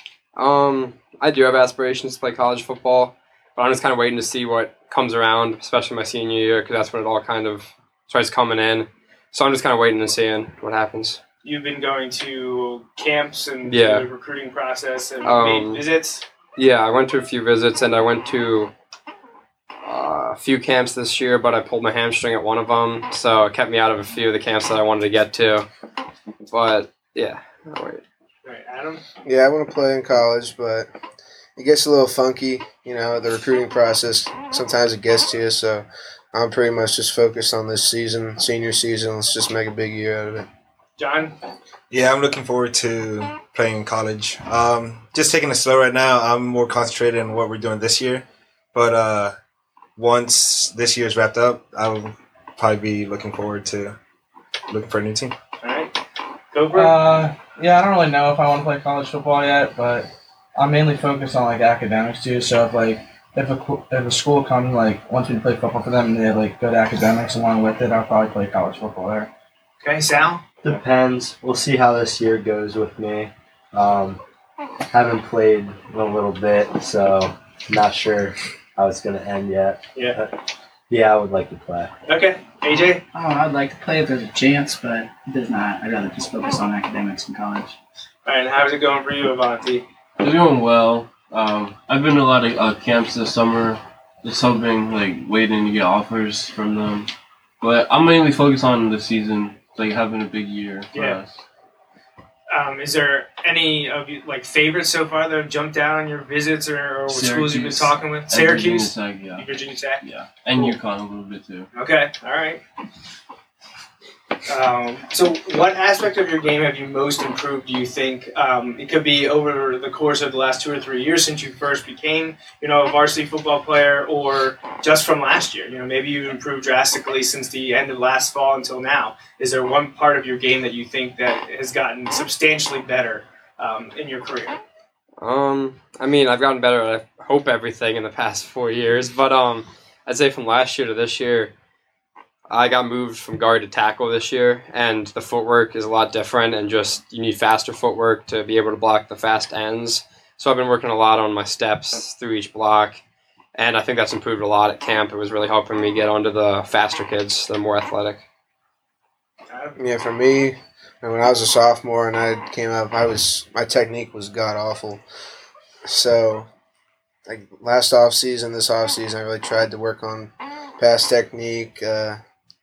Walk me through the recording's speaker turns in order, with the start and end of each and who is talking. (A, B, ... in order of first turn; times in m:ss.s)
0:00.4-0:11.2 A
0:11.4-0:16.2 B
0:13.7-0:14.1 A
0:15.2-0:15.8 A
0:16.6-0:18.7 A
0:19.8-0:25.7 A
0:26.4-0:28.0 A
0:28.4-0:29.0 B
0:29.2-0:30.9 C
0:31.6-0:40.4 C
0:41.0-0:41.3 B
0:41.9-0:49.4 D
0:50.0-0:54.0 D
0:54.7-0:55.3 D
0:55.6-0:55.9 B
0:56.5-0:57.0 B
0:56.7-1:09.3 E
1:09.8-1:10.4 B
1:10.6-1:14.2 F
1:14.9-1:20.3 F
1:20.9-1:21.9 F
1:22.0-1:23.0 B
1:23.1-1:27.8 G
1:28.2-1:29.8 B
1:30.2-1:41.4 H
1:40.9-1:41.2 B
1:42.5-1:50.0 B
1:47.1-1:51.7 H
1:51.7-1:52.6 B
1:54.5-2:14.6 B
2:15.2-2:21.5 A
2:22.5-2:33.0 A
2:33.5-2:38.2 A
2:39.5-2:39.8 B
2:39.8-2:45.0 C
2:45.8-2:46.5 C
2:47.2-2:52.2 C